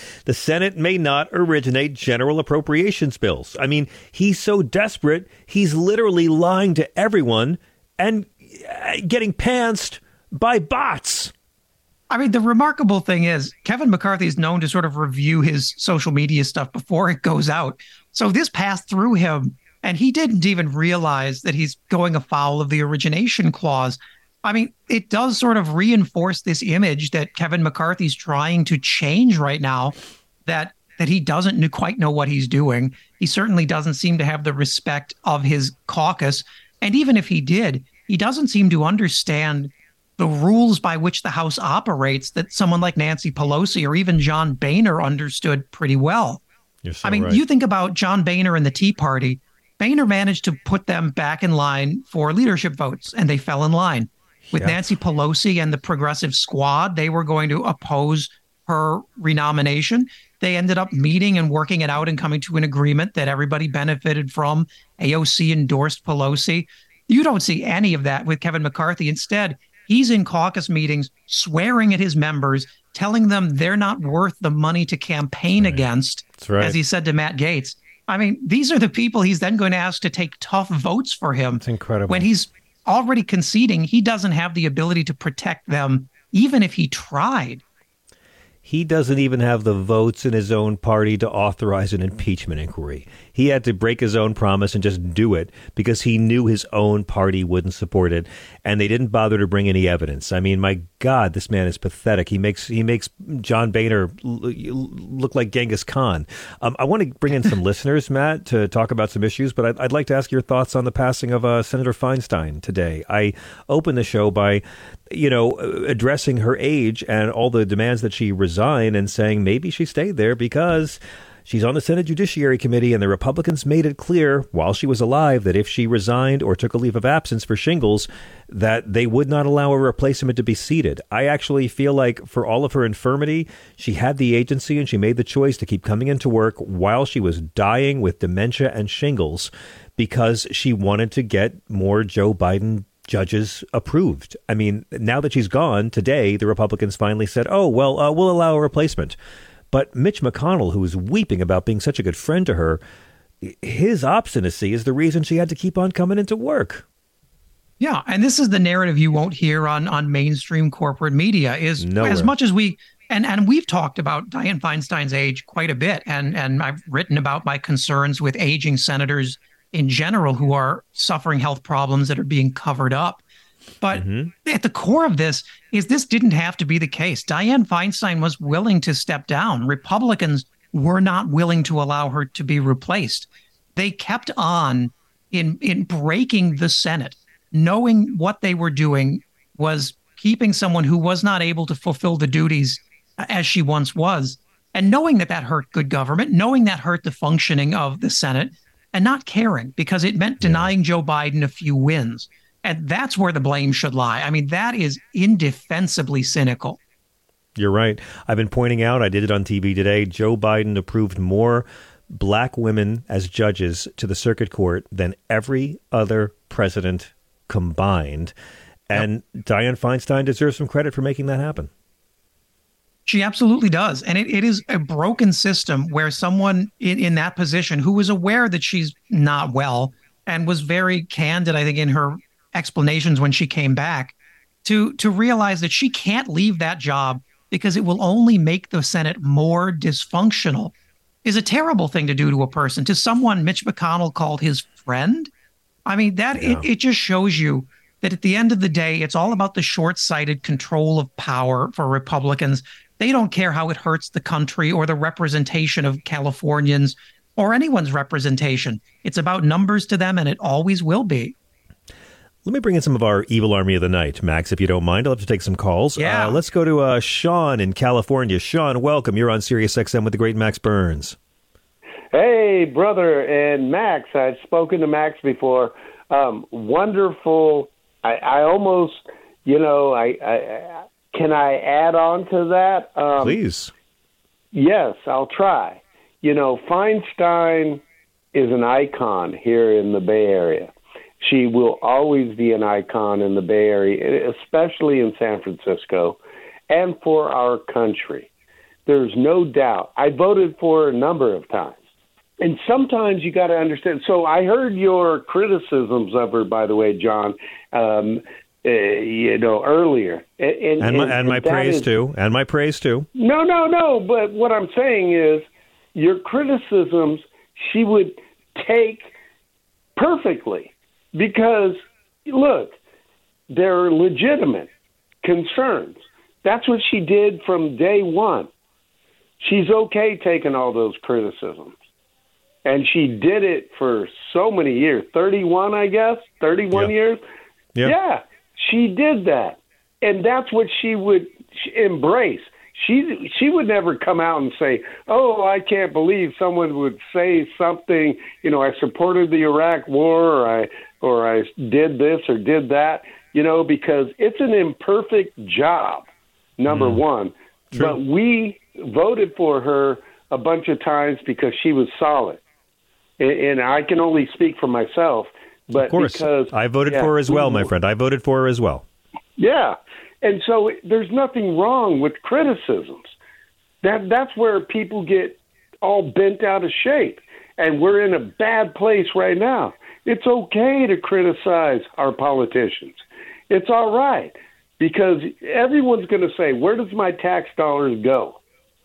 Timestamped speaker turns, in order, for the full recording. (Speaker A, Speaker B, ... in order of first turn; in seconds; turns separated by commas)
Speaker A: 0.2-11.3, Speaker B: 12.1-29.9, Speaker B: 30.4-46.4, Speaker A: 46.8-47.4, Speaker B: 47.0-87.6, Speaker A: 54.5-54.8, Speaker A: 75.5-75.8, Speaker A: 76.4-76.8, Speaker A: 81.6-82.3, Speaker A: 88.6-149.2, Speaker A: 149.7-152.8, Speaker A: 153.4-156.8, Speaker B: 157.8-173.2, Speaker A: 161.8-162.3, Speaker B: 173.8-206.8, Speaker A: 173.9-174.3, Speaker A: 200.4-200.7, Speaker A: 207.6-218.3, Speaker A: 218.9-221.7, Speaker B: 223.1-240.7, Speaker B: 241.2-245.3, Speaker B: 245.8-261.3, Speaker A: 246.4-246.7, Speaker A: 262.4-271.2, Speaker B: 266.0-266.4, Speaker C: 272.1-283.4, Speaker A: 283.2-283.7, Speaker C: 284.5-287.8, Speaker C: 288.3-298.3, Speaker C: 298.9-301.8, Speaker C: 302.4-312.0, Speaker A: 310.8-313.1, Speaker C: 313.1-319.1, Speaker C: 319.9-322.8, Speaker C: 323.5-324.7, Speaker C: 325.2-328.5, Speaker C: 329.4-331.7, Speaker C: 332.6-337.2, Speaker C: 337.8-356.1, Speaker C: 356.6-362.4, Speaker A: 356.7-357.0, Speaker A: 357.7-358.0, Speaker C: 363.2-367.7, Speaker A: 365.7-368.8, Speaker C: 369.4-373.1, Speaker C: 373.8-388.4